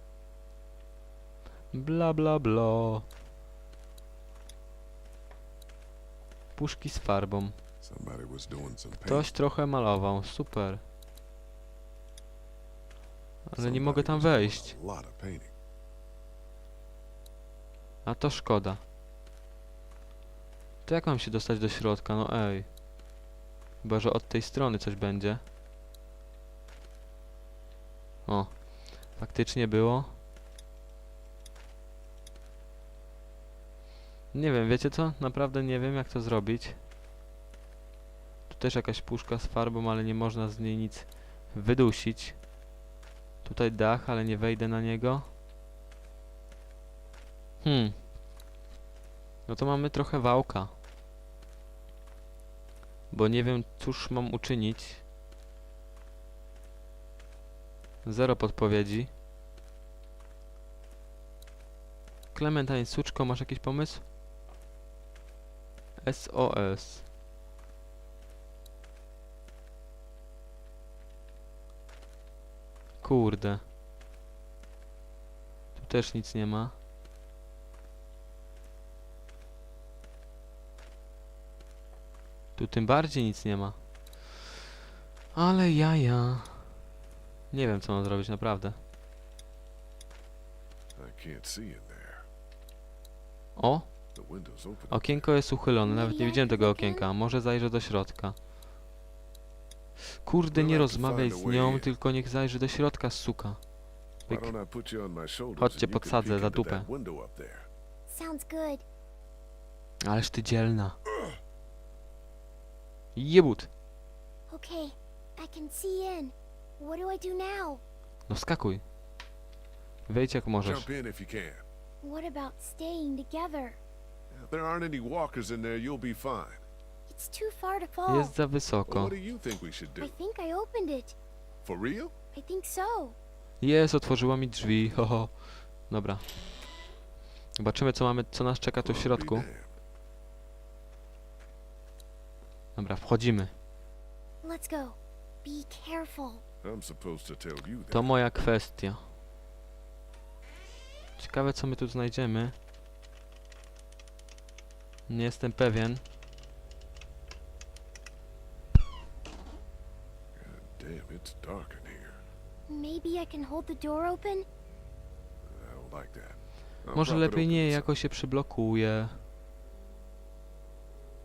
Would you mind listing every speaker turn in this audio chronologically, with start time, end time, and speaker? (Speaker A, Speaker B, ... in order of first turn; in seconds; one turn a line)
Speaker A: 1.7-3.1
Speaker A: 6.5-7.6
Speaker B: 7.8-9.3
Speaker A: 9.1-10.8
Speaker A: 13.5-14.8
Speaker B: 13.6-15.5
Speaker A: 18.1-18.8
Speaker A: 20.9-22.7
Speaker A: 23.8-25.4
Speaker A: 28.3-30.2
Speaker A: 34.3-36.8
Speaker A: 38.5-42.4
Speaker A: 43.4-45.3
Speaker A: 47.6-48.0
Speaker A: 49.5-50.7
Speaker A: 53.1-55.0
Speaker A: 58.0-59.1
Speaker A: 62.3-64.0
Speaker A: 66.0-67.1
Speaker A: 73.0-73.6
Speaker A: 75.8-76.8
Speaker A: 82.6-83.8
Speaker A: 85.3-86.8
Speaker A: 87.5-88.8
Speaker B: 91.0-92.3
Speaker A: 93.6-93.9
Speaker B: 94.2-95.3
Speaker A: 94.9-98.4
Speaker C: 95.8-97.1
Speaker A: 100.2-103.6
Speaker B: 100.5-101.9
Speaker B: 104.3-107.7
Speaker A: 104.3-104.5
Speaker A: 105.6-106.9
Speaker C: 108.1-108.8
Speaker A: 110.0-111.0
Speaker A: 113.2-113.7
Speaker C: 114.5-117.8
Speaker A: 118.3-118.8
Speaker A: 120.1-120.9
Speaker B: 120.6-121.6
Speaker C: 122.0-123.8
Speaker B: 124.3-126.6
Speaker C: 127.1-128.4
Speaker A: 128.1-129.2
Speaker B: 128.9-130.2
Speaker C: 130.0-131.2
Speaker B: 131.6-132.1
Speaker C: 132.3-133.2
Speaker A: 133.6-136.3
Speaker A: 137.6-139.5
Speaker B: 138.8-139.7
Speaker A: 142.8-143.5
Speaker C: 144.4-146.4
Speaker B: 146.6-148.2
Speaker A: 147.9-149.0
Speaker A: 151.2-152.6
Speaker A: 155.1-156.0
Speaker B: 160.3-162.2
Speaker C: 162.7-164.5
Speaker B: 165.4-167.9
Speaker A: 166.9-169.2